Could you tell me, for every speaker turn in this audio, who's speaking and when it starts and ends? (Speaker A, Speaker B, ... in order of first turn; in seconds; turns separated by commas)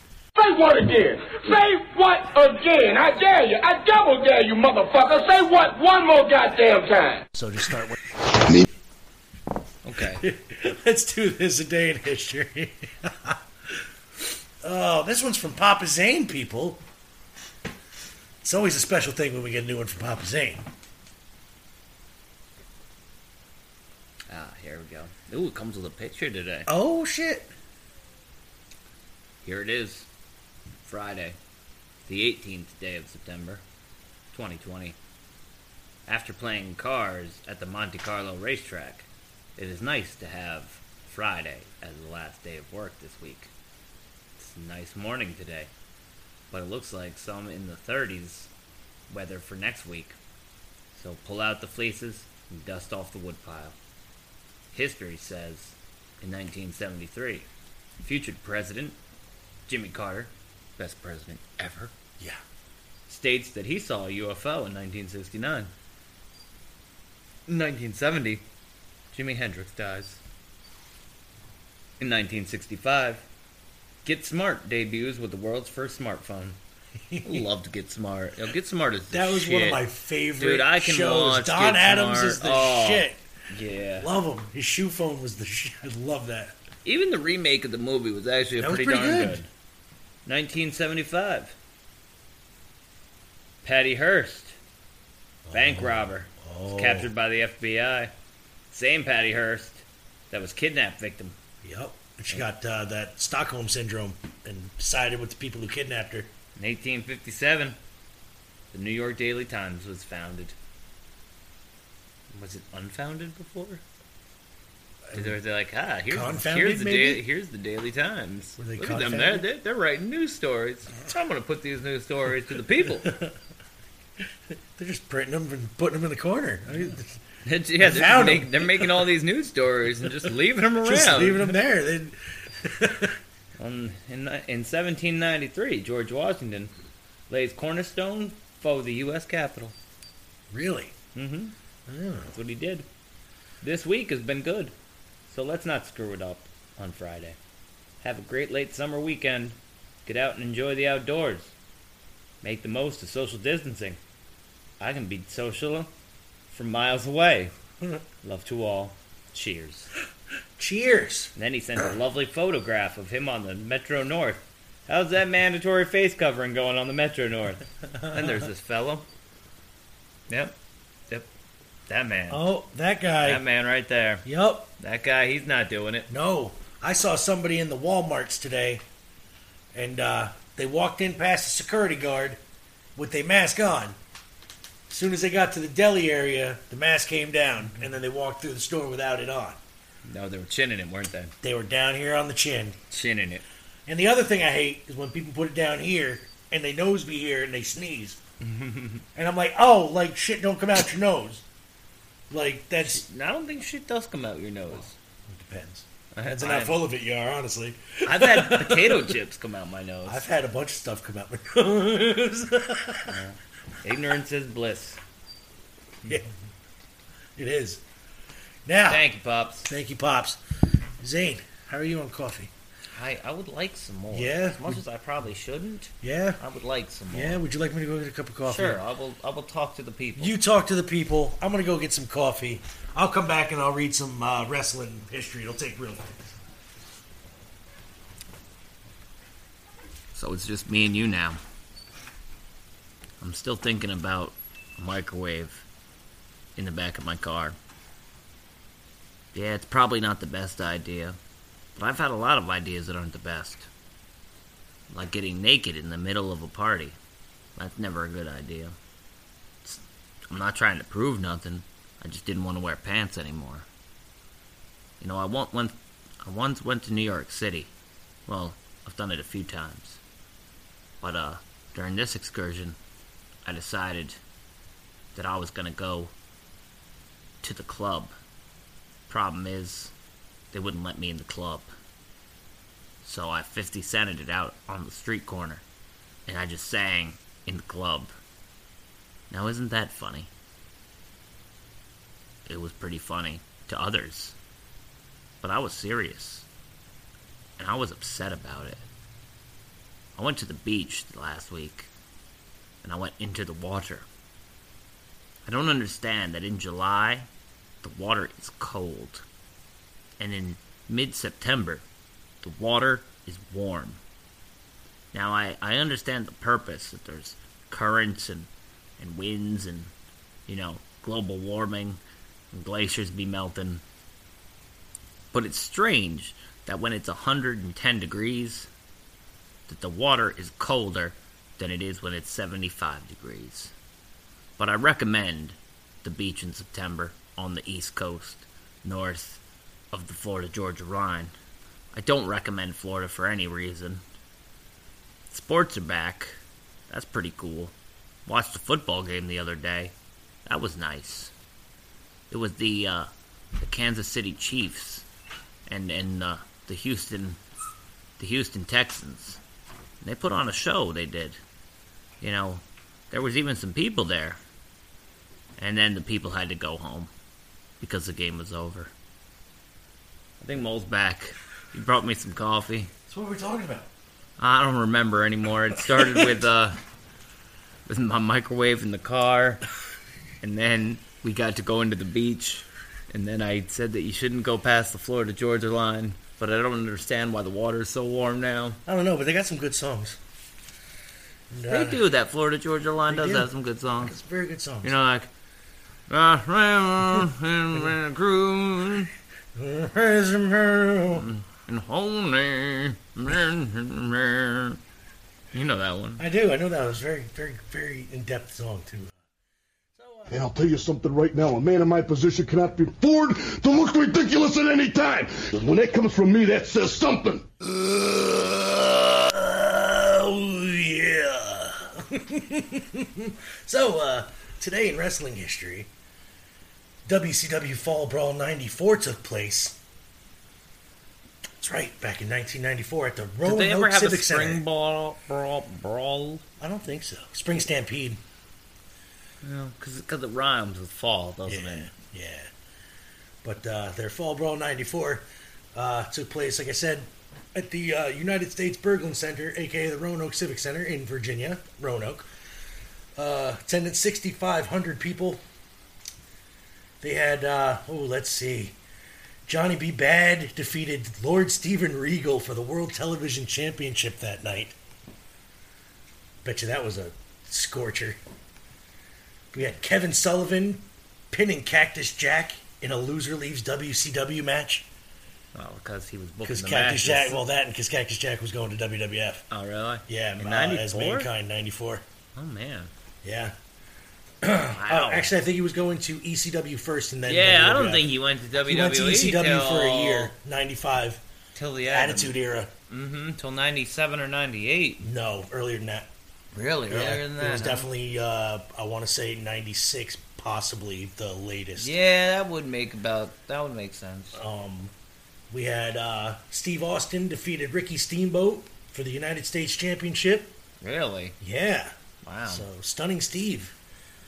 Speaker A: 0.3-7.2, Speaker B: 7.3-8.0, Speaker C: 8.3-8.6, Speaker D: 9.8-10.2, Speaker B: 10.1-16.8, Speaker B: 18.4-20.6, Speaker D: 24.3-26.7, Speaker B: 26.7-27.5, Speaker D: 29.4-30.1, Speaker D: 30.8-31.4, Speaker D: 32.1-33.6, Speaker D: 34.3-35.0, Speaker D: 36.1-43.5, Speaker D: 44.4-45.7, Speaker D: 46.5-48.5, Speaker D: 49.1-50.2, Speaker D: 50.9-53.8, Speaker D: 54.7-57.5, Speaker D: 58.0-59.0, Speaker D: 59.7-61.9, Speaker D: 63.1-65.7, Speaker D: 67.5-68.4, Speaker D: 69.1-70.2, Speaker D: 72.0-73.2, Speaker D: 74.0-76.6, Speaker B: 77.1-77.4, Speaker D: 77.2-79.8, Speaker B: 79.1-83.2, Speaker D: 80.4-84.1, Speaker B: 84.0-86.6, Speaker D: 86.8-89.5, Speaker B: 88.6-89.4, Speaker D: 90.2-91.5, Speaker D: 93.6-94.5, Speaker B: 95.5-97.1, Speaker D: 95.5-98.1, Speaker D: 98.7-101.3, Speaker B: 101.6-106.3, Speaker D: 106.6-107.8, Speaker D: 108.7-110.5, Speaker D: 112.3-113.8, Speaker B: 115.1-115.3, Speaker D: 115.1-123.2, Speaker B: 116.1-117.2, Speaker B: 118.6-119.5, Speaker B: 123.0-123.3, Speaker B: 124.8-127.2, Speaker D: 127.4-131.6, Speaker B: 127.8-129.1, Speaker B: 130.8-133.2, Speaker D: 133.6-136.7, Speaker D: 137.3-139.7, Speaker B: 140.5-140.9, Speaker D: 141.1-141.5, Speaker B: 141.9-142.3, Speaker D: 142.3-142.8, Speaker D: 143.6-144.7, Speaker D: 145.3-147.4, Speaker D: 148.0-151.5, Speaker D: 152.4-154.0, Speaker D: 154.8-155.9, Speaker D: 156.5-157.5, Speaker D: 158.2-159.9, Speaker B: 160.6-161.3, Speaker D: 161.3-169.1, Speaker D: 170.3-170.5, Speaker D: 171.9-172.4, Speaker B: 172.3-173.4, Speaker D: 173.2-174.2, Speaker B: 174.2-174.7, Speaker D: 174.8-176.1, Speaker B: 176.1-178.8, Speaker B: 179.7-182.4, Speaker B: 182.9-184.0, Speaker B: 184.9-189.6, Speaker D: 190.1-191.3, Speaker B: 191.4-192.8, Speaker D: 192.9-193.4, Speaker B: 193.9-198.2, Speaker D: 198.4-199.0, Speaker B: 199.1-201.4, Speaker B: 202.3-203.0, Speaker D: 202.8-204.9, Speaker B: 205.3-209.2, Speaker D: 206.1-206.8, Speaker D: 208.0-210.2, Speaker B: 210.1-213.2, Speaker D: 213.1-215.0, Speaker B: 217.3-217.8, Speaker B: 218.7-219.1, Speaker D: 218.9-219.7, Speaker B: 219.7-220.4, Speaker B: 221.0-222.5, Speaker D: 222.9-227.4, Speaker B: 224.1-224.8, Speaker B: 226.0-226.4, Speaker B: 227.1-228.8, Speaker D: 228.4-230.4, Speaker B: 230.2-236.3, Speaker D: 240.1-241.4, Speaker D: 243.2-245.7, Speaker D: 246.6-247.6, Speaker D: 249.3-251.2, Speaker D: 251.8-253.7, Speaker D: 254.9-257.0, Speaker D: 257.6-258.8, Speaker D: 259.6-263.7, Speaker D: 265.0-267.7, Speaker D: 268.3-270.0, Speaker D: 271.0-272.8, Speaker D: 273.4-274.2, Speaker D: 275.1-276.1, Speaker D: 277.4-278.1, Speaker D: 279.1-279.9, Speaker D: 280.5-281.7, Speaker D: 283.0-285.6, Speaker D: 286.3-288.1, Speaker D: 289.3-290.3, Speaker D: 292.4-294.4, Speaker D: 295.4-296.4, Speaker D: 297.6-298.8, Speaker D: 300.1-301.9, Speaker D: 302.8-304.1, Speaker D: 305.4-307.3, Speaker D: 307.8-309.2, Speaker D: 310.2-311.8, Speaker D: 312.4-314.0, Speaker D: 315.1-319.9, Speaker D: 320.5-322.0, Speaker D: 322.5-323.8, Speaker D: 325.3-328.7, Speaker D: 329.7-333.7, Speaker D: 334.6-339.4, Speaker D: 339.9-341.3, Speaker D: 341.9-344.0, Speaker D: 345.3-346.4, Speaker D: 346.9-347.7, Speaker D: 348.2-349.9, Speaker D: 350.4-351.3, Speaker D: 352.3-355.0, Speaker D: 355.7-357.4, Speaker D: 358.2-359.4, Speaker D: 360.0-361.4, Speaker D: 362.2-364.4, Speaker D: 365.6-367.1, Speaker D: 367.8-368.9, Speaker D: 370.4-372.9, Speaker B: 373.1-373.9, Speaker D: 374.4-376.8, Speaker D: 377.9-379.6, Speaker D: 380.4-388.8, Speaker B: 388.9-390.2, Speaker B: 391.5-392.0, Speaker D: 391.7-394.1, Speaker B: 393.1-394.9, Speaker D: 394.8-395.3, Speaker D: 396.1-399.1, Speaker B: 399.5-401.3, Speaker D: 401.1-404.8, Speaker D: 405.5-406.2, Speaker B: 406.2-409.2, Speaker B: 409.9-410.3, Speaker C: 410.3-417.5, Speaker B: 417.7-425.9, Speaker B: 427.1-429.8, Speaker B: 431.6-434.6, Speaker D: 433.4-436.4, Speaker B: 436.6-438.2, Speaker D: 439.4-441.9, Speaker B: 441.4-442.5, Speaker B: 443.4-452.3, Speaker B: 453.1-455.4, Speaker B: 457.0-458.8, Speaker B: 459.4-464.8, Speaker B: 466.4-468.2, Speaker B: 469.5-474.9, Speaker D: 475.5-477.4, Speaker B: 476.4-479.4, Speaker D: 479.5-481.3, Speaker B: 480.1-482.0, Speaker D: 482.4-482.9, Speaker B: 483.2-483.5, Speaker B: 484.4-488.1, Speaker D: 484.7-485.3, Speaker D: 487.3-490.3, Speaker B: 488.6-491.2, Speaker D: 491.5-492.3, Speaker B: 491.9-492.7, Speaker D: 492.9-495.0, Speaker B: 495.0-496.1, Speaker D: 496.5-497.9, Speaker B: 496.9-501.9, Speaker D: 501.8-504.4, Speaker B: 504.3-504.9, Speaker B: 505.5-510.5, Speaker D: 510.8-511.4, Speaker B: 511.4-513.7, Speaker D: 512.2-512.6